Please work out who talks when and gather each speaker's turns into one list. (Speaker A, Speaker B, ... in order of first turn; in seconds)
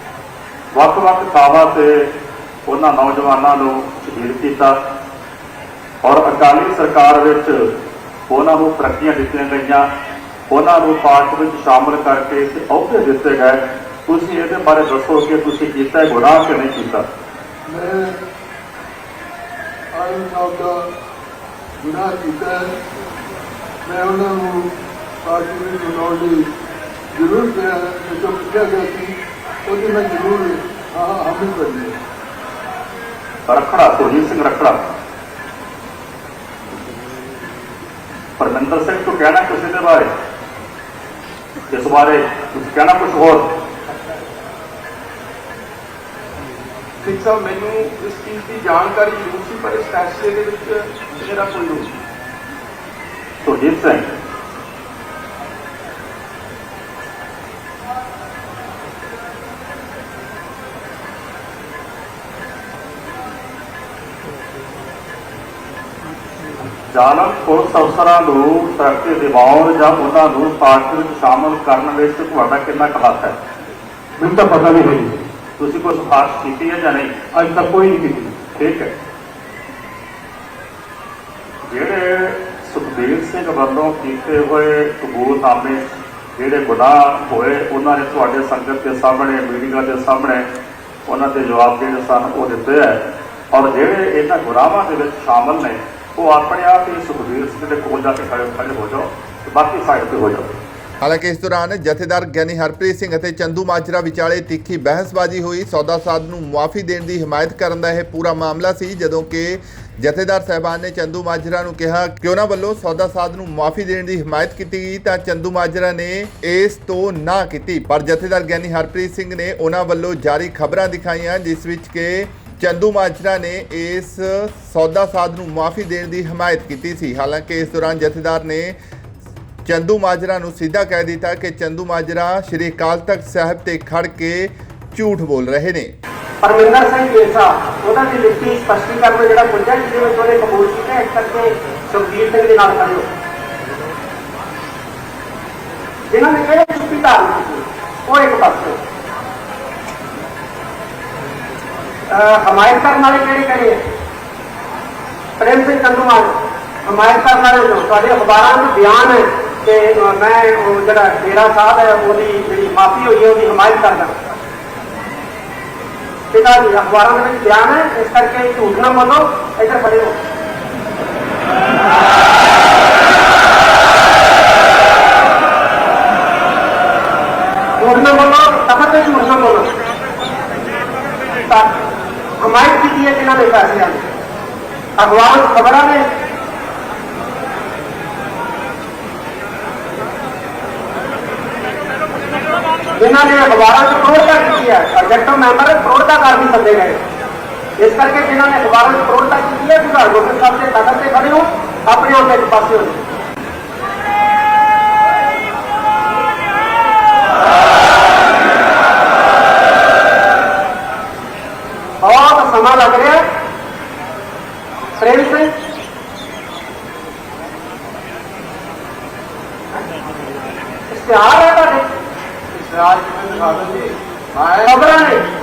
Speaker A: 0.7-2.1, 2.7-4.8, 6.0-7.7, 8.3-9.9, 10.5-17.1, 33.5-34.8, 38.4-40.1, 41.7-43.5, 53.4-54.0, 66.9-73.3, 75.6-77.1, 78.5-78.9, 81.7-85.8, 86.3-90.5, 91.1-100.6
Speaker B: 17.7-18.2, 19.9-20.9, 21.8-22.8, 23.8-26.5, 27.1-29.1, 29.6-32.0
Speaker C: 47.0-51.9
Speaker D: 74.2-75.2, 77.3-78.3
Speaker E: 101.0-128.8, 129.7-135.9
Speaker F: 136.4-143.0, 146.1-148.8, 152.1-153.8, 155.4-164.2, 166.3-170.1, 177.8-179.7, 181.4-181.7, 182.4-184.0, 185.0-186.1, 193.0-197.0, 197.8-203.0, 212.0-213.2, 215.0-215.5, 220.9-221.8, 224.6-225.2
Speaker G: 222.5-224.8